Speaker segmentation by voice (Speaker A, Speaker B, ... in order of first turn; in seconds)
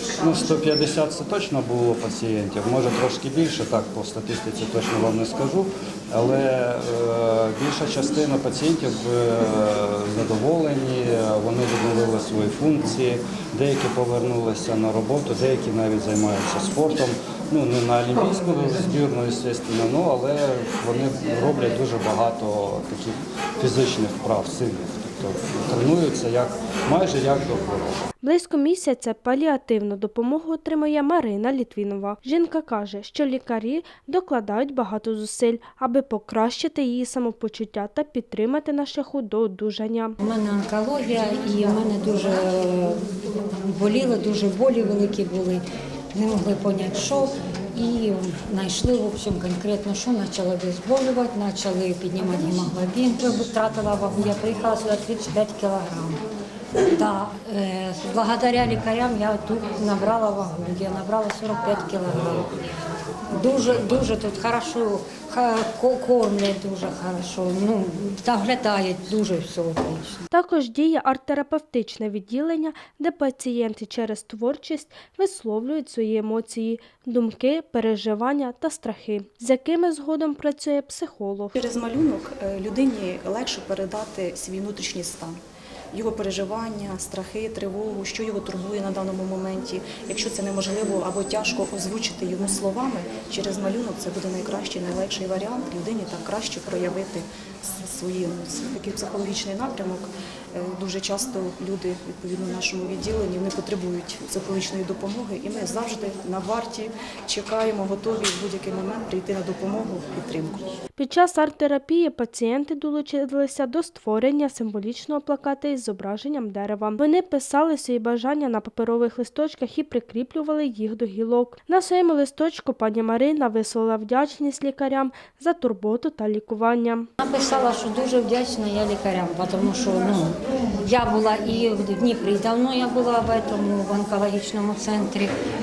Speaker A: 0.2-28.0
Speaker B: 28.2-40.2, 70.3-81.5, 111.0-127.1
Speaker C: 40.2-43.0, 43.6-45.6, 46.1-56.2, 56.9-62.5, 63.4-70.2, 127.2-135.3
Speaker D: 81.5-85.4, 85.9-110.7